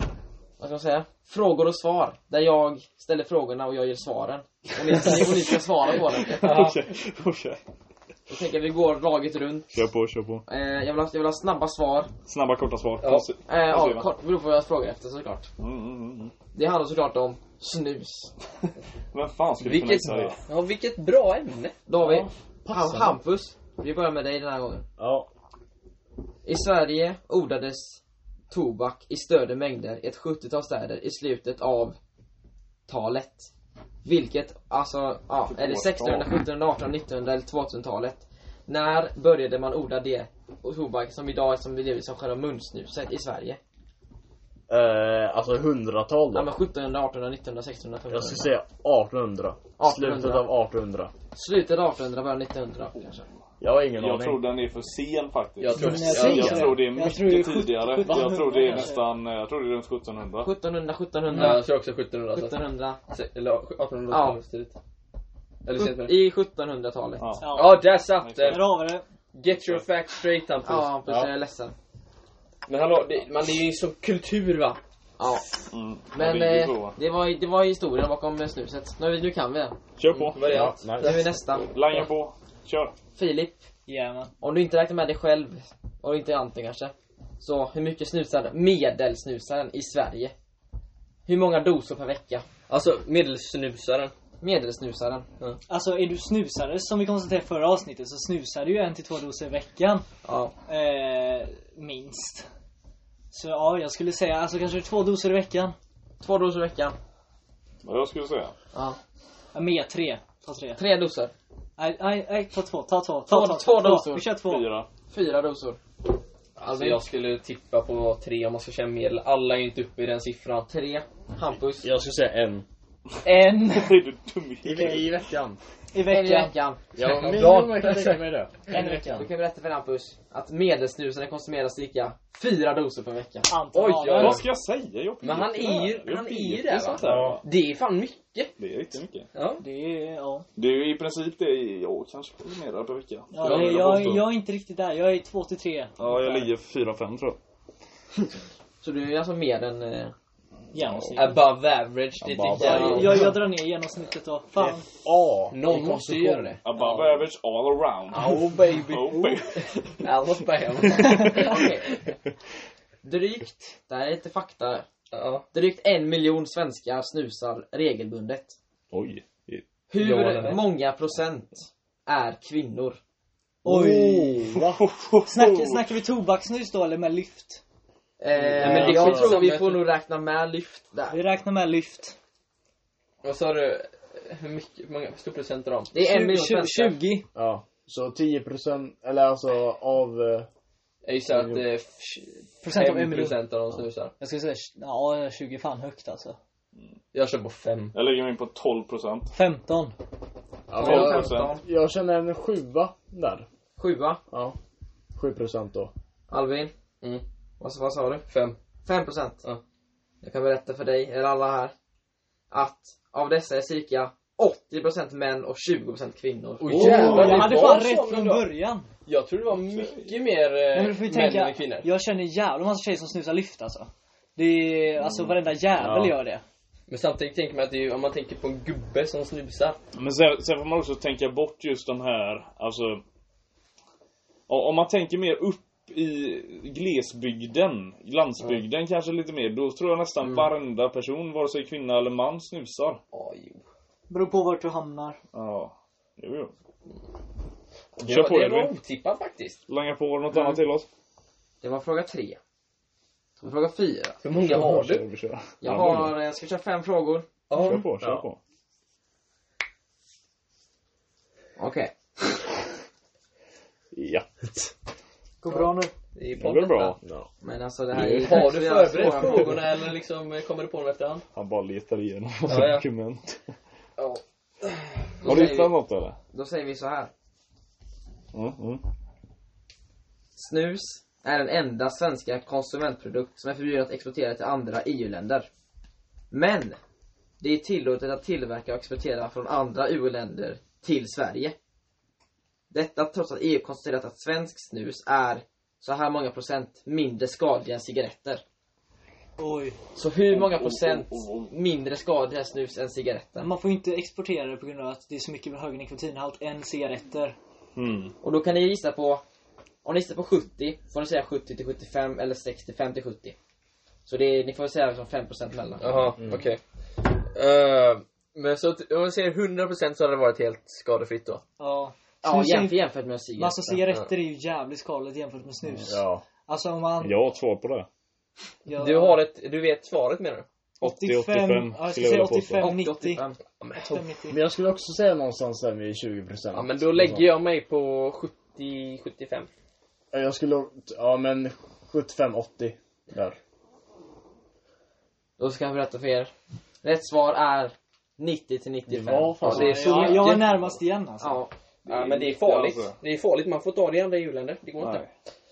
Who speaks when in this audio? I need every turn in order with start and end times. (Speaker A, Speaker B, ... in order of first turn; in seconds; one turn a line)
Speaker A: 0.6-6.8
Speaker B: 6.3-7.6
Speaker C: 6.4-6.8
Speaker A: 8.3-9.8
Speaker B: 9.7-10.4
Speaker A: 10.5-12.1
Speaker B: 12.3-14.1
Speaker C: 13.0-13.3
Speaker A: 13.5-15.5
Speaker B: 15.6-16.3
Speaker A: 16.5-18.3
Speaker B: 19.1-20.4
Speaker C: 19.6-21.7
Speaker A: 21.9-24.9
Speaker D: 22.0-23.2
Speaker D: 25.0-25.3
Speaker A: 26.4-28.0
Speaker A: 28.5-32.0
Speaker A: 32.9-33.5
Speaker A: 34.0-43.6
Speaker B: 35.5-36.3
Speaker D: 44.7-46.5
Speaker A: 46.3-48.5
Speaker D: 48.1-51.1
Speaker A: 49.8-50.5
Speaker A: 51.3-53.2
Speaker D: 53.6-54.4
Speaker B: 54.0-60.5
Speaker C: 55.6-56.7
Speaker E: 55.8-59.1
Speaker D: 55.8-56.8
Speaker D: 58.1-58.7
Speaker A: 60.4-61.6
Speaker C: 61.3-64.8
Speaker A: 62.3-63.0
Speaker A: 64.1-64.4
Speaker C: 65.7-66.1
Speaker A: 65.8-67.3
Speaker B: 67.2-68.7
Speaker E: 67.4-67.8
Speaker C: 67.5-68.7
Speaker E: 68.4-69.0
Speaker C: 69.3-70.9
Speaker B: 69.5-69.8
Speaker A: 70.6-71.7
Speaker D: 71.1-71.3
Speaker C: 72.7-74.8
Speaker A: 75.2-79.8
Speaker B: 75.7-77.0
Speaker B: 80.0-80.7
Speaker C: 80.1-81.4
Speaker D: 80.4-81.2
Speaker A: 81.0-81.7
Speaker B: 81.6-82.9
Speaker A: 83.2-83.7
Speaker E: 83.9-84.3
Speaker A: 84.4-90.3
Speaker A: 91.3-92.5
Speaker C: 92.7-94.1
Speaker A: 94.4-95.3
Speaker E: 95.7-100.0
Speaker A: 100.2-100.5
Speaker E: 100.7-102.5
Speaker E: 103.3-105.8
Speaker A: 106.2-107.0
Speaker B: 107.8-108.5
Speaker A: 108.7-109.0
Speaker E: 109.5-110.8
Speaker A: 110.8-111.3
Speaker E: 111.8-114.7
Speaker A: 113.3-114.3
Speaker B: 114.4-114.9
Speaker A: 115.1-115.8
Speaker A: 116.6-117.0
Speaker C: 116.7-120.7
Speaker A: 120.7-121.9
Speaker D: 121.8-122.7
Speaker E: 123.2-124.0
Speaker B: 123.7-125.1
Speaker D: 124.6-125.6
Speaker E: 125.9-126.5
Speaker A: 126.1-126.8
Speaker D: 127.0-129.3
Speaker C: 127.0-128.2
Speaker A: 129.1-133.5
Speaker E: 133.5-134.4
Speaker C: 133.7-134.4
Speaker B: 134.2-137.4
Speaker C: 135.2-138.6
Speaker D: 137.0-137.4
Speaker B: 138.6-139.3
Speaker C: 139.3-139.6
Speaker E: 139.6-140.5
Speaker B: 140.6-144.3
Speaker E: 143.3-146.5
Speaker C: 143.4-144.0
Speaker B: 146.0-147.4
Speaker A: 148.8-150.1
Speaker E: 150.7-151.4
Speaker B: 150.8-151.4
Speaker C: 151.2-153.3
Speaker D: 152.2-153.3
Speaker E: 152.6-154.8
Speaker D: 154.6-156.6
Speaker C: 155.5-157.2
Speaker B: 156.6-160.0
Speaker C: 158.1-161.7
Speaker B: 161.0-161.5
Speaker A: 161.4-162.0
Speaker A: 163.0-164.9
Speaker C: 165.1-165.4
Speaker A: 165.5-168.6
Speaker B: 168.9-169.6
Speaker A: 169.9-173.0
Speaker C: 170.0-170.6
Speaker D: 173.6-174.8
Speaker E: 173.7-174.5
Speaker B: 174.7-175.9
Speaker E: 175.3-177.6
Speaker A: 178.2-181.2
Speaker D: 178.4-179.4
Speaker C: 178.6-179.9
Speaker E: 181.1-182.2
Speaker C: 183.2-185.9
Speaker A: 185.9-187.0
Speaker E: 185.9-187.3
Speaker D: 187.3-190.5
Speaker C: 191.1-194.1
Speaker D: 191.3-191.7
Speaker E: 192.6-193.4
Speaker E: 194.2-196.4
Speaker C: 197.1-198.0
Speaker B: 197.9-199.3
Speaker E: 199.3-199.9
Speaker D: 200.7-203.5
Speaker B: 200.8-201.5
Speaker A: 200.8-201.6
Speaker A: 203.8-204.2
Speaker D: 204.3-204.6
Speaker D: 205.2-205.9
Speaker A: 206.3-206.7
Speaker A: 207.6-208.3
Speaker C: 208.3-208.6
Speaker A: 208.9-209.4
Speaker A: 210.2-211.7
Speaker A: 212.5-217.6
Speaker C: 216.6-218.5
Speaker D: 216.7-217.5
Speaker E: 216.7-218.9
Speaker C: 219.1-221.9
Speaker B: 219.6-220.2
Speaker E: 220.7-226.4
Speaker D: 225.8-226.2
Speaker C: 226.9-229.8
Speaker B: 229.9-233.0
Speaker B: 234.5-243.0
Speaker A: 240.2-240.5
Speaker C: 243.1-243.6
Speaker E: 244.1-245.2
Speaker B: 245.3-246.5
Speaker C: 248.0-249.6
Speaker B: 248.0-248.7
Speaker B: 249.7-250.9
Speaker A: 251.6-252.4
Speaker A: 253.4-254.2
Speaker C: 254.2-255.0
Speaker B: 254.4-256.1
Speaker A: 255.6-257.3
Speaker C: 257.5-257.9
Speaker B: 257.6-258.4
Speaker D: 257.8-258.2
Speaker A: 261.6-261.9
Speaker B: 263.9-264.3
Speaker E: 265.4-265.9
Speaker C: 266.1-267.0
Speaker B: 266.4-267.0
Speaker D: 267.0-267.3
Speaker A: 267.4-269.6
Speaker C: 267.9-271.2
Speaker B: 271.4-273.4
Speaker C: 272.5-272.9
Speaker C: 274.0-275.1
Speaker A: 275.2-275.8
Speaker B: 275.2-276.2
Speaker A: 276.3-277.1
Speaker B: 278.3-278.8
Speaker A: 280.4-285.5
Speaker A: 286.3-286.8
Speaker A: 287.4-291.6
Speaker A: 292.7-298.4
Speaker E: 299.4-299.8
Speaker A: 300.0-303.5
Speaker B: 300.3-301.5
Speaker E: 303.4-307.4
Speaker B: 307.8-308.1
Speaker A: 308.2-309.2
Speaker A: 309.8-313.4
Speaker A: 314.1-316.1
Speaker C: 315.8-321.4
Speaker D: 316.2-316.4
Speaker E: 321.6-322.8
Speaker A: 322.2-323.7
Speaker E: 323.4-327.2
Speaker D: 325.9-326.2
Speaker B: 327.0-327.9
Speaker E: 328.6-329.2
Speaker C: 328.8-330.5
Speaker B: 330.8-332.7
Speaker E: 330.8-333.2
Speaker A: 332.6-333.4
Speaker C: 333.6-334.1
Speaker E: 333.8-334.4
Speaker D: 334.3-337.3
Speaker C: 336.5-339.5
Speaker D: 340.1-343.4
Speaker A: 345.4-346.3
Speaker A: 346.8-350.2
Speaker D: 348.9-350.1
Speaker C: 349.4-350.6
Speaker E: 349.5-351.4
Speaker A: 351.2-351.5
Speaker B: 351.9-353.0
Speaker C: 351.9-355.1
Speaker B: 354.8-355.1